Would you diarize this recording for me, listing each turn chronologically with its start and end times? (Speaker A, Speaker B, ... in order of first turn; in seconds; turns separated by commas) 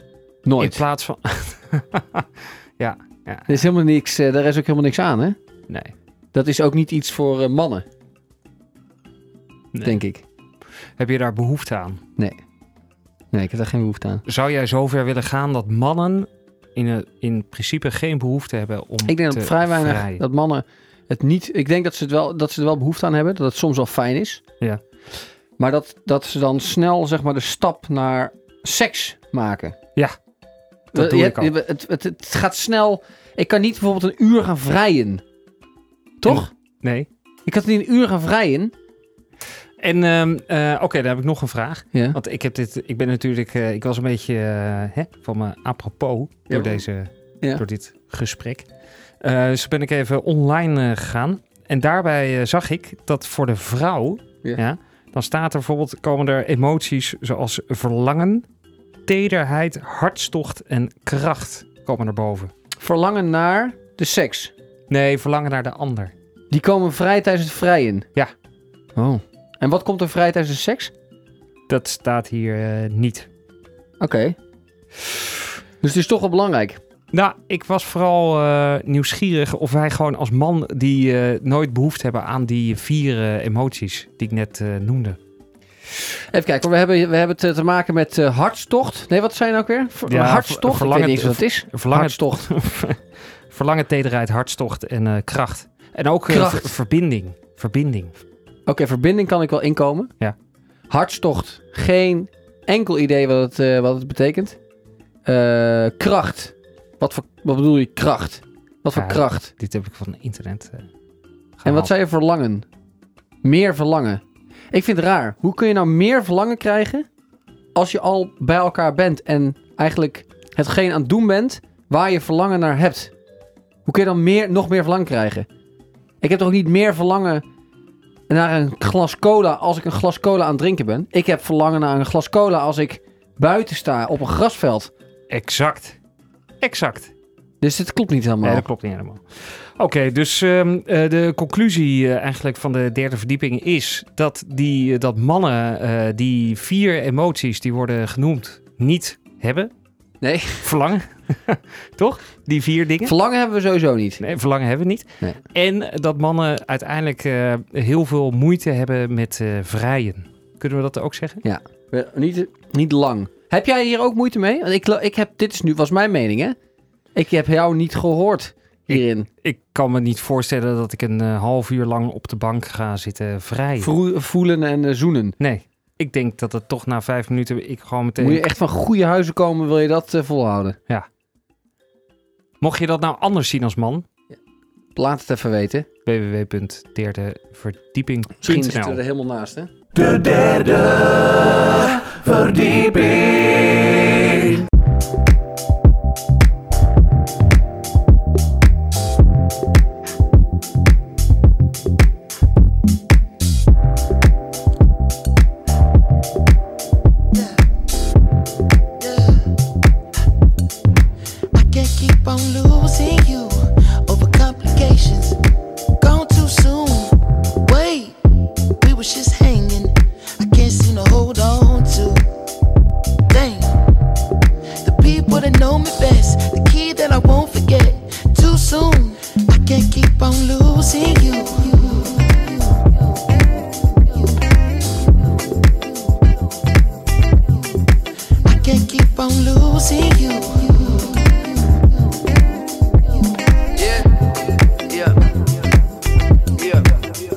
Speaker A: 0.5-0.8, Speaker B: 0.6-2.3, Speaker B: 2.8-3.6, Speaker A: 3.5-5.4, Speaker B: 5.7-5.9, Speaker A: 6.3-7.8, Speaker A: 9.8-10.2, Speaker B: 11.0-12.0, Speaker A: 13.3-14.2, Speaker B: 14.3-20.2, Speaker A: 19.1-24.4, Speaker A: 25.6-29.8, Speaker B: 30.9-31.5, Speaker A: 30.9-35.2, Speaker A: 36.2-36.5, Speaker B: 36.2-37.1, Speaker A: 37.5-38.7, Speaker B: 39.8-48.7, Speaker A: 46.5-46.9, Speaker B: 49.2-58.5, Speaker B: 59.1-62.5, Speaker A: 62.8-64.5, Speaker B: 64.9-66.1, Speaker A: 66.5-68.1, Speaker A: 69.0-70.9, Speaker B: 71.7-73.3, Speaker A: 74.0-74.4, Speaker A: 75.8-76.8, Speaker B: 77.1-85.2, Speaker A: 86.3-92.5, Speaker B: 90.1-98.2, Speaker A: 96.3-96.7, Speaker A: 98.7-100.1, Speaker A: 100.9-104.6, Speaker A: 105.3-109.5, Speaker B: 109.0-110.9, Speaker B: 111.6-111.9, Speaker A: 111.7-112.7, Speaker A: 113.4-117.1, Speaker A: 117.8-123.1, Speaker A: 123.8-125.5, Speaker A: 126.2-127.4, Speaker A: 128.3-134.9, Speaker B: 135.3-136.0, Speaker B: 136.6-137.1, Speaker A: 137.6-138.7, Speaker B: 138.4-149.7, Speaker A: 150.2-150.7, Speaker B: 150.6-153.2, Speaker A: 153.0-154.2, Speaker B: 154.2-161.4, Speaker A: 161.4-166.6, Speaker A: 167.2-169.3, Speaker B: 168.9-173.9, Speaker A: 173.8-175.3, Speaker B: 175.4-178.4, Speaker A: 178.2-180.8, Speaker B: 182.6-184.1, Speaker A: 185.0-185.9, Speaker B: 186.1-189.0, Speaker A: 188.4-189.7, Speaker C: 190.0-193.8, Speaker D: 209.0-209.4, Speaker D: 211.5-215.4, Speaker D: 216.0-218.2, Speaker D: 218.8-222.2, Speaker D: 223.3-223.8, Speaker D: 224.8-232.4, Speaker D: 238.4-241.4, Speaker E: 243.8-245.4, Speaker E: 246.6-247.1